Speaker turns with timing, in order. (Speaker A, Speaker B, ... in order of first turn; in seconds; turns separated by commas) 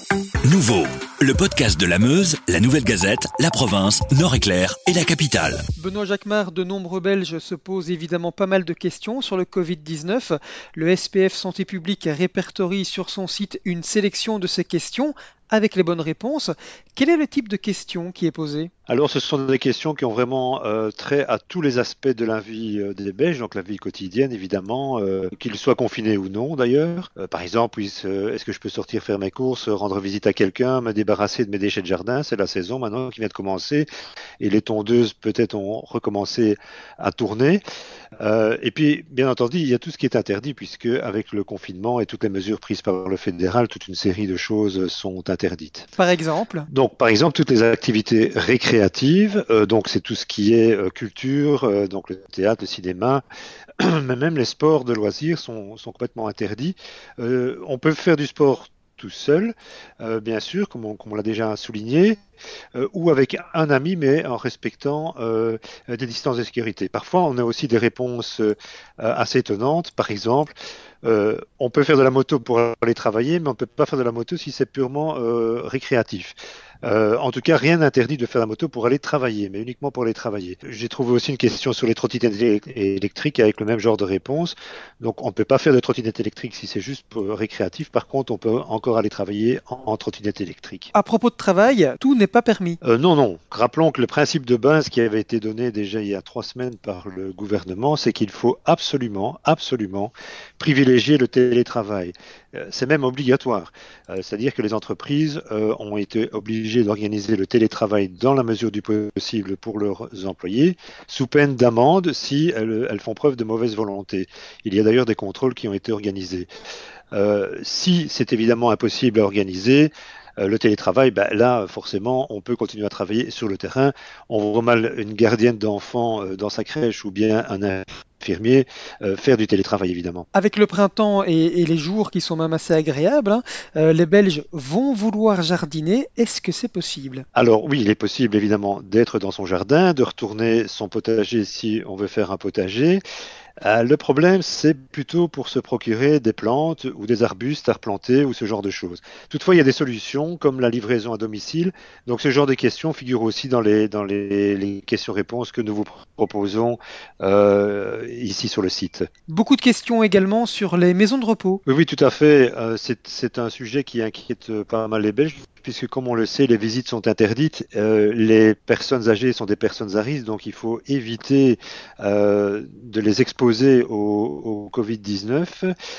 Speaker A: 0.4-5.6, Speaker B: 5.8-18.7, Speaker C: 18.9-33.9, Speaker C: 34.4-37.6, Speaker C: 38.2-45.9, Speaker B: 46.0-46.7, Speaker C: 46.7-53.2, Speaker C: 53.8-62.2, Speaker C: 62.7-90.9, Speaker B: 90.9-92.8, Speaker C: 92.8-116.5, Speaker C: 117.1-130.3, Speaker B: 130.3-137.2, Speaker C: 137.3-143.0, Speaker C: 143.6-159.1, Speaker B: 159.3-161.6, Speaker C: 161.7-175.7